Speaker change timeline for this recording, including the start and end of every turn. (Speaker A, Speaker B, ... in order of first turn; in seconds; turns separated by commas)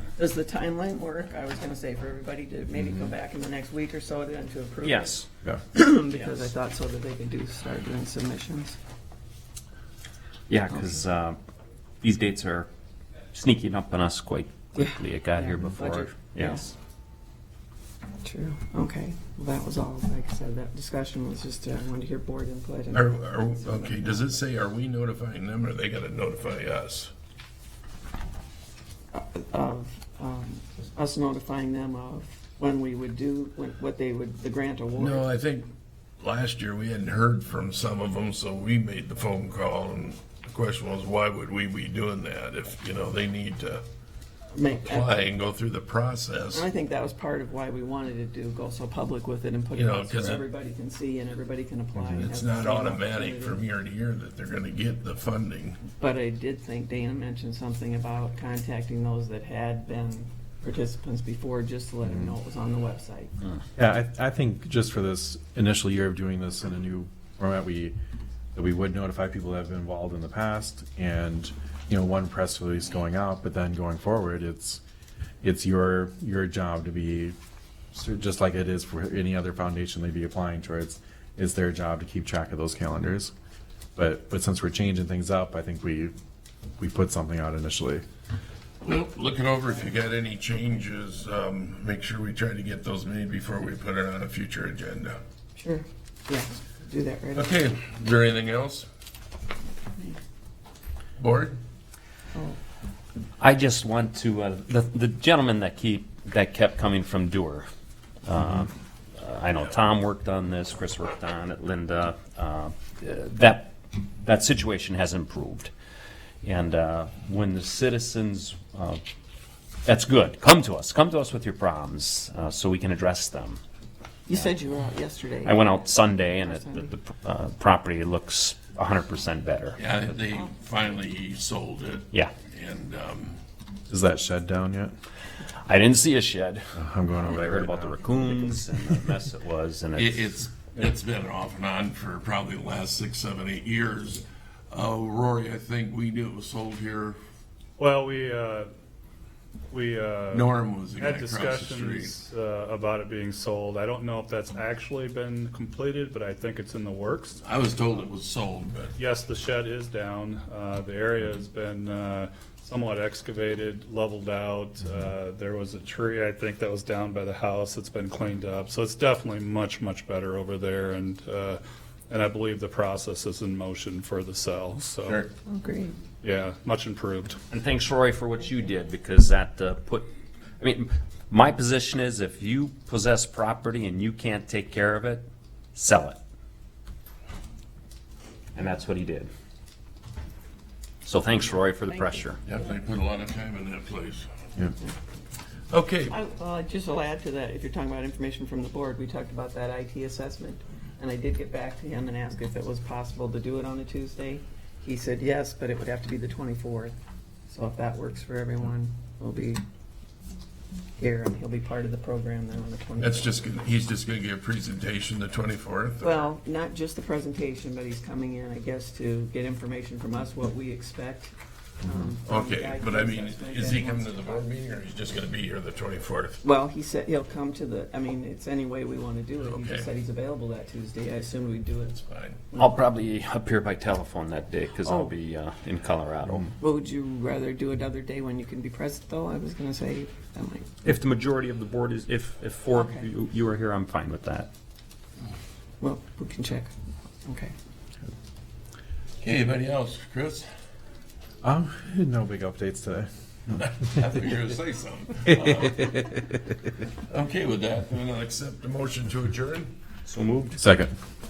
Speaker A: 0.2-8.8, Speaker B: 4.8-5.3, Speaker B: 10.5-11.4, Speaker B: 12.0-12.7, Speaker B: 13.3-16.7, Speaker A: 14.8-16.7, Speaker A: 18.2-24.4, Speaker C: 22.9-27.1, Speaker A: 29.1-35.3, Speaker C: 35.0-35.7, Speaker C: 36.2-43.8, Speaker A: 44.5-45.2, Speaker C: 44.7-46.7, Speaker A: 46.5-53.6, Speaker C: 49.7-50.4, Speaker D: 52.0-52.2, Speaker C: 52.2-55.8, Speaker A: 55.9-63.4, Speaker D: 62.1-62.3, Speaker D: 63.8-68.0, Speaker D: 68.5-74.8, Speaker D: 75.4-77.4, Speaker D: 77.9-83.3, Speaker D: 84.0-86.1, Speaker D: 86.8-88.0, Speaker C: 88.8-95.2, Speaker A: 95.6-97.6, Speaker C: 97.3-98.9, Speaker A: 99.9-100.2, Speaker C: 101.2-101.6, Speaker B: 103.4-107.7, Speaker B: 108.2-115.7, Speaker B: 116.4-119.0, Speaker B: 119.8-123.6, Speaker A: 124.3-127.0, Speaker B: 125.4-129.8, Speaker C: 129.8-133.4, Speaker D: 133.9-134.9, Speaker B: 135.6-140.3, Speaker D: 136.8-138.2, Speaker C: 140.0-147.2, Speaker E: 147.8-148.7, Speaker E: 149.7-157.4, Speaker C: 150.3-152.2, Speaker C: 157.4-158.9, Speaker E: 159.0-175.2, Speaker A: 175.5-176.0, Speaker E: 176.2-177.4, Speaker B: 177.5-180.1, Speaker B: 180.6-186.2, Speaker B: 188.5-189.3, Speaker B: 191.1-192.4, Speaker C: 192.5-194.3, Speaker C: 195.7-196.2, Speaker A: 196.1-207.0, Speaker A: 207.5-209.6, Speaker A: 211.0-213.5, Speaker C: 213.0-216.2, Speaker A: 216.0-224.6, Speaker C: 222.2-226.4, Speaker A: 226.4-232.0, Speaker C: 229.4-229.9, Speaker C: 231.9-232.4, Speaker A: 232.5-232.8, Speaker B: 232.6-236.5, Speaker A: 234.8-235.1, Speaker A: 236.6-240.7, Speaker B: 240.8-244.5, Speaker A: 242.7-243.1, Speaker A: 245.8-246.7, Speaker A: 247.2-247.5, Speaker C: 249.2-250.5, Speaker D: 251.4-253.1, Speaker C: 253.6-256.1, Speaker D: 255.3-256.4, Speaker C: 257.1-259.7, Speaker B: 260.1-260.6, Speaker D: 260.6-260.9